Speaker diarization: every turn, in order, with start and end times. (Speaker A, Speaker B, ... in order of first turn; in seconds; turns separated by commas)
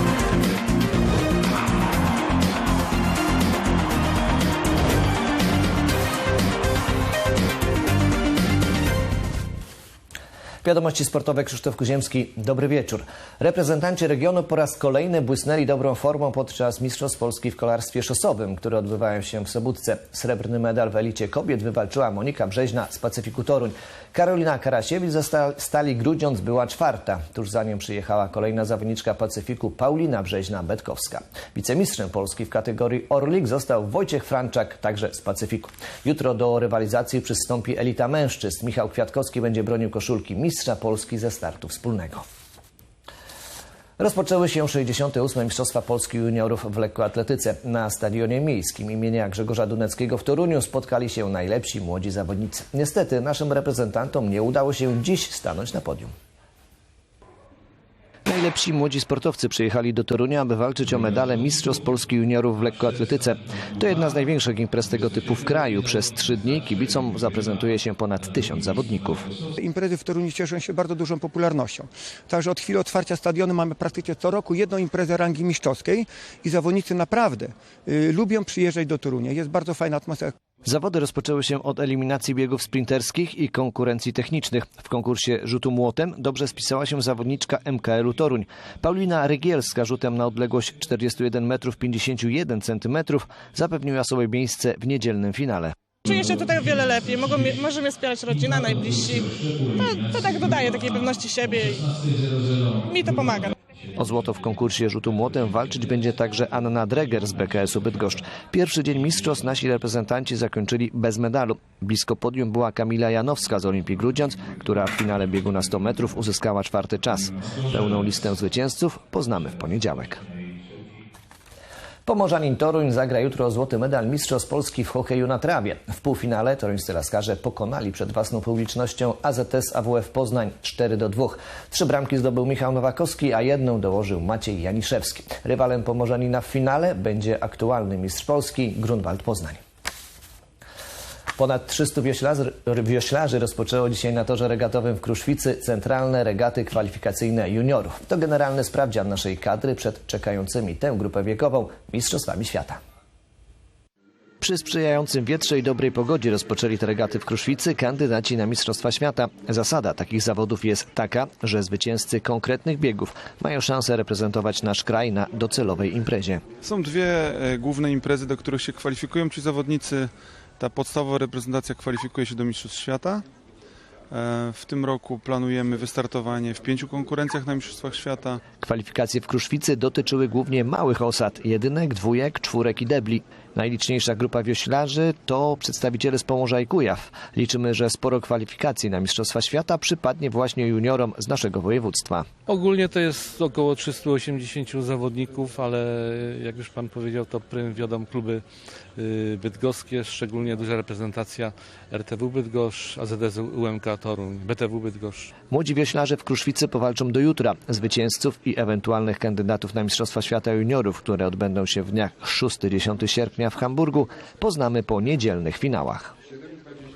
Speaker A: 10.6-42.2, Speaker A: 44.0-56.1, Speaker A: 58.3-69.3, Speaker B: 69.6-80.3, Speaker A: 80.6-95.8, Speaker C: 96.0-101.9, Speaker D: 98.3-103.9, Speaker C: 102.9-103.5, Speaker A: 104.0-120.2, Speaker A: 122.1-139.6, Speaker A: 141.4-152.8, Speaker A: 154.4-166.4, Speaker E: 166.6-173.2, Speaker E: 174.1-178.4, Speaker A: 178.6-192.3, Speaker D: 192.5-198.4, Speaker D: 199.0-205.3, Speaker A: 205.5-216.1